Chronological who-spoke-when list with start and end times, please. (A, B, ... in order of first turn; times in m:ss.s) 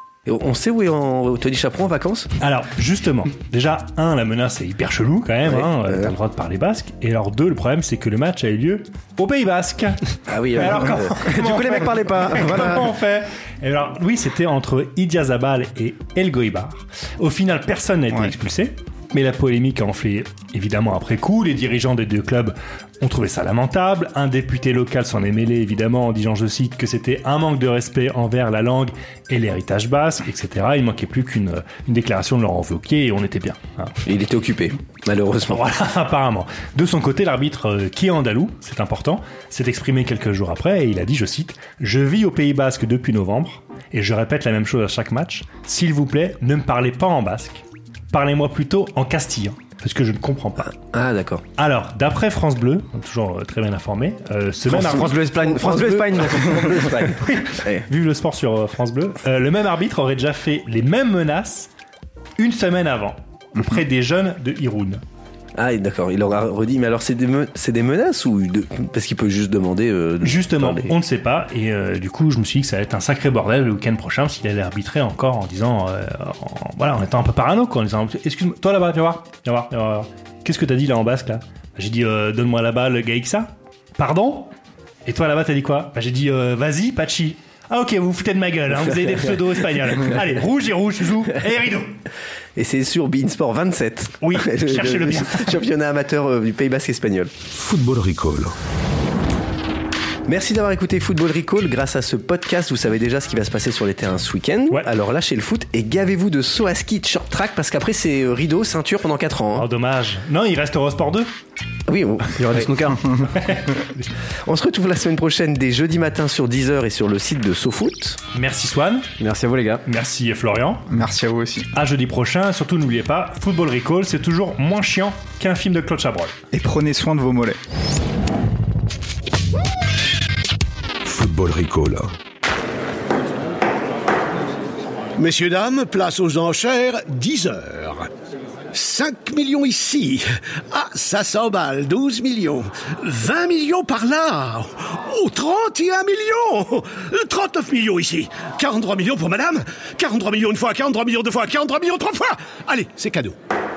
0:00.3-0:02.3 A
0:02.4-0:33.9 B
0:05.4-0:06.1 A
0:10.3-0:11.2 A
0:11.2-0:12.9 C
0:34.0-0:35.6 A
0:35.5-0:50.7 B
0:50.7-0:51.4 A
0:51.6-0:55.3 B
0:54.7-0:57.8 A
0:54.9-0:57.1 C
0:57.1-1:01.7 B
1:02.4-1:05.0 B
1:05.5-1:10.9 A
1:10.2-1:24.5 B
1:25.0-1:31.9 B
1:32.6-1:37.3 A
1:34.2-1:35.6 B
1:37.5-1:38.5 D
1:40.3-1:49.6 A
1:49.6-1:51.3 B
1:51.9-1:52.9 A
1:52.3-1:53.0 C
1:53.3-1:54.1 B
1:54.4-1:58.2 A
1:58.3-1:59.1 B
1:59.2-1:59.8 C
1:59.8-2:00.8 B
2:00.9-2:01.7 E
2:01.7-2:06.3 B
2:06.5-2:07.6 E
2:11.0-2:12.1 D
2:15.2-2:18.1 F
2:18.7-2:33.4 F